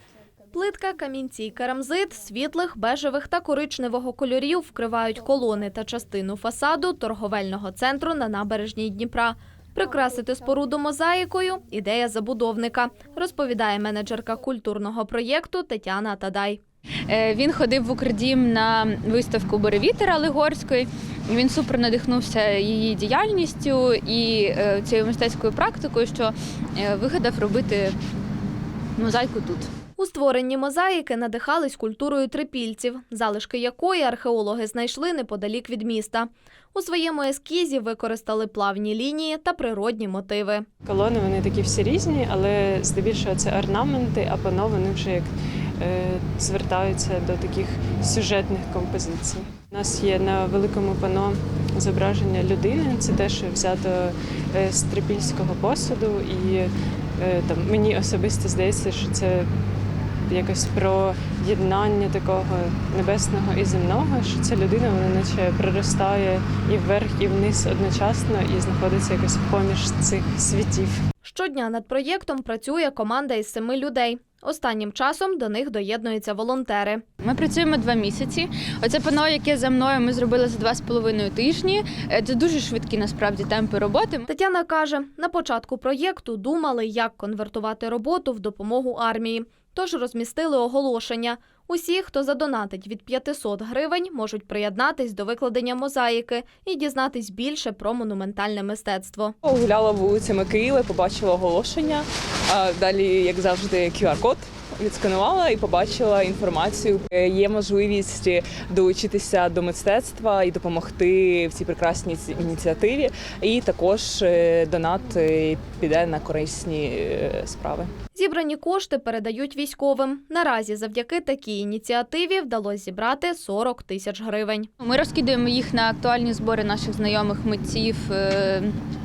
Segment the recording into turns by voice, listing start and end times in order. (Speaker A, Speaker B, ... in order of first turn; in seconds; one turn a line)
Speaker A: 0.5-16.6
Speaker B: 17.1-28.0
Speaker B: 29.0-29.7
Speaker A: 30.0-40.7
Speaker C: 40.8-59.5
Speaker C: 60.3-71.0
Speaker A: 71.2-77.0
Speaker B: 77.2-84.3
Speaker A: 84.3-99.4
Speaker D: 99.4-117.9
Speaker A: 118.2-124.7
Speaker B: 124.8-128.8